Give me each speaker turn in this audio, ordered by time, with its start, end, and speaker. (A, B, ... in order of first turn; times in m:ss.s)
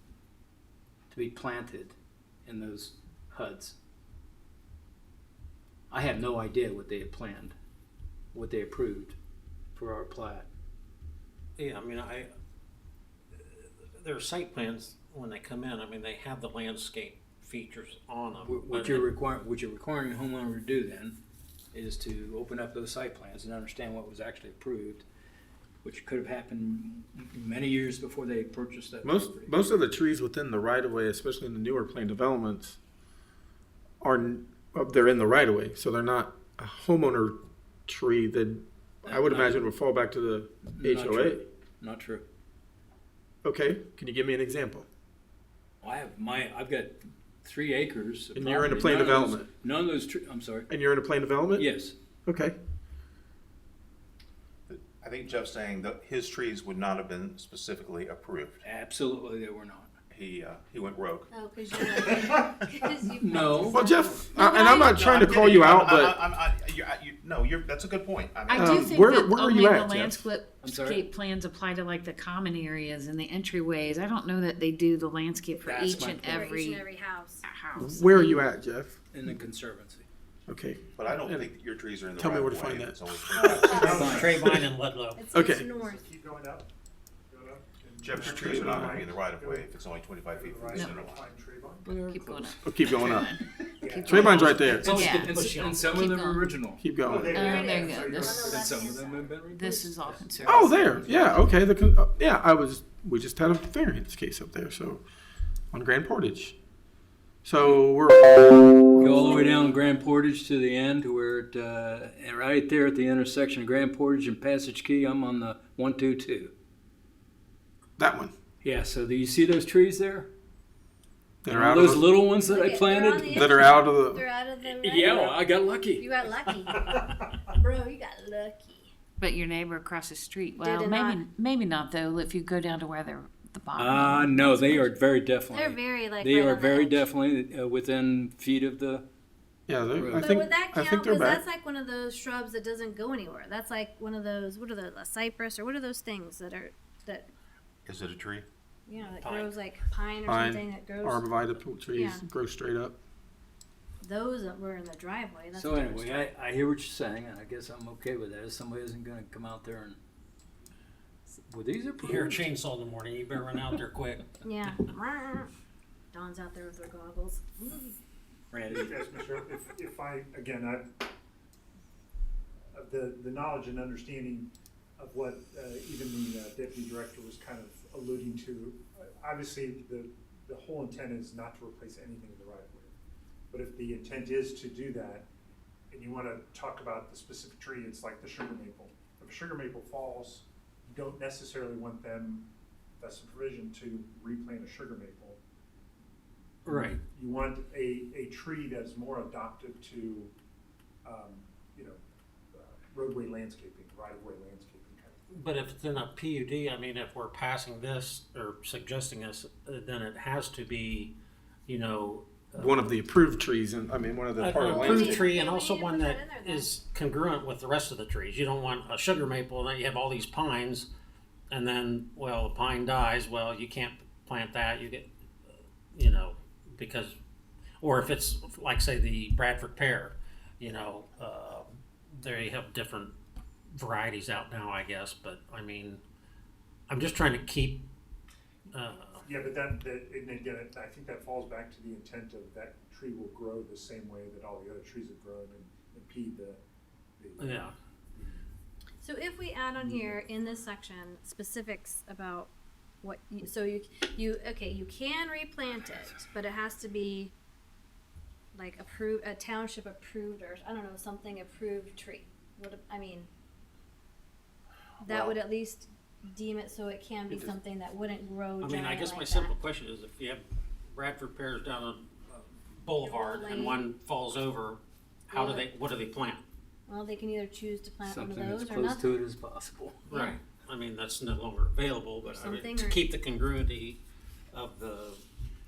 0:01.1-0:03.8 A
0:05.9-0:07.5 A
0:08.3-0:09.2 A
0:09.8-0:10.5 A
0:11.6-0:12.3 B
0:13.5-0:19.1 B
0:18.4-0:21.2 A
0:21.7-0:25.1 A
0:25.8-0:29.6 A
0:29.0-0:32.8 C
0:34.0-0:41.4 C
0:39.0-0:39.7 A
0:40.7-0:42.2 A
0:43.4-0:44.9 C
0:45.8-0:50.7 A
0:48.4-0:49.5 C
0:50.7-0:51.7 C
0:51.6-0:52.0 A
0:52.3-0:52.6 C
0:54.7-0:58.6 D
0:58.6-0:59.9 A
1:00.1-1:01.3 D
1:01.3-1:04.4 E
1:03.2-1:03.9 A
1:03.7-1:06.2 C
1:04.3-1:04.9 F
1:04.4-1:09.0 D
1:08.5-1:16.9 F
1:08.6-1:10.3 C
1:10.6-1:11.0 A
1:15.6-1:16.3 A
1:15.9-1:17.4 E
1:17.5-1:18.5 F
1:17.8-1:19.0 C
1:19.1-1:20.1 A
1:20.5-1:21.5 C
1:20.9-1:24.4 D
1:22.2-1:23.5 C
1:23.4-1:24.7 G
1:23.5-1:24.1 E
1:23.9-1:24.4 A
1:24.0-1:25.2 B
1:24.4-1:24.7 C
1:25.2-1:26.0 E
1:25.3-1:25.7 C
1:25.8-1:26.7 G
1:27.3-1:29.8 G
1:28.0-1:31.3 D
1:30.3-1:32.1 G
1:30.7-1:31.0 F
1:31.9-1:36.5 F
1:31.9-1:32.6 A
1:32.6-1:33.4 C
1:33.8-1:34.4 G
1:34.0-1:35.0 C
1:34.0-1:36.0 B
1:34.7-1:37.6 A
1:36.8-1:37.3 C
1:37.0-1:38.6 G
1:37.2-1:38.7 F
1:37.3-1:39.4 E
1:38.3-1:40.4 A
1:39.5-1:41.1 F
1:40.5-1:45.0 C
1:41.0-1:41.3 A
1:45.7-1:46.6 C
1:47.4-1:49.2 C
1:49.0-1:56.5 A
1:58.0-1:58.3 C
1:58.6-2:00.3 A
2:01.4-2:02.1 C
2:01.5-2:03.8 A
2:02.4-2:08.9 E
2:03.2-2:04.2 C
2:04.6-2:06.9 A
2:09.2-2:14.9 F
2:10.6-2:11.2 E
2:13.8-2:19.0 A
2:15.5-2:17.1 E
2:19.7-2:21.4 C
2:19.9-2:20.4 A
2:20.2-2:27.3 E
2:27.9-2:28.5 D
2:28.9-2:31.3 E
2:29.2-2:29.6 B
2:30.3-2:33.0 C
2:31.9-2:32.2 E
2:34.0-2:36.3 E
2:35.5-2:40.0 A
2:41.5-2:42.3 A
2:42.0-2:44.3 B
2:44.4-2:45.5 E
2:46.1-2:48.0 E
2:48.5-2:49.0 A
2:48.7-2:50.9 G
2:52.7-3:03.0 G
3:03.5-3:05.3 G
3:05.9-3:12.5 G
3:13.0-3:15.4 G
3:16.6-3:17.0 B
3:16.7-3:20.3 G
3:21.0-3:22.0 G
3:22.5-3:25.2 G
3:25.3-3:31.1 B
3:31.7-3:32.9 B
3:32.6-3:35.3 C
3:34.4-3:40.9 B
3:34.6-3:36.8 E
3:41.5-3:45.1 B
3:45.9-3:47.2 B
3:47.8-3:53.2 B
3:53.7-3:56.0 B
3:56.9-3:57.8 B
3:58.7-3:59.2 B
3:59.2-4:06.6 G
4:07.2-4:08.4 G
4:07.4-4:07.7 B
4:09.0-4:12.5 E
4:13.0-4:17.3 E
4:18.5-4:23.3 E
4:25.0-4:25.3 D
4:25.0-4:29.6 E
4:28.6-4:36.4 B
4:33.0-4:33.9 E
4:35.3-4:35.7 E
4:36.9-4:39.2 E
4:38.1-4:40.0 A
4:40.1-4:44.0 B
4:40.1-4:40.4 E
4:42.3-4:43.1 E
4:44.5-4:45.2 B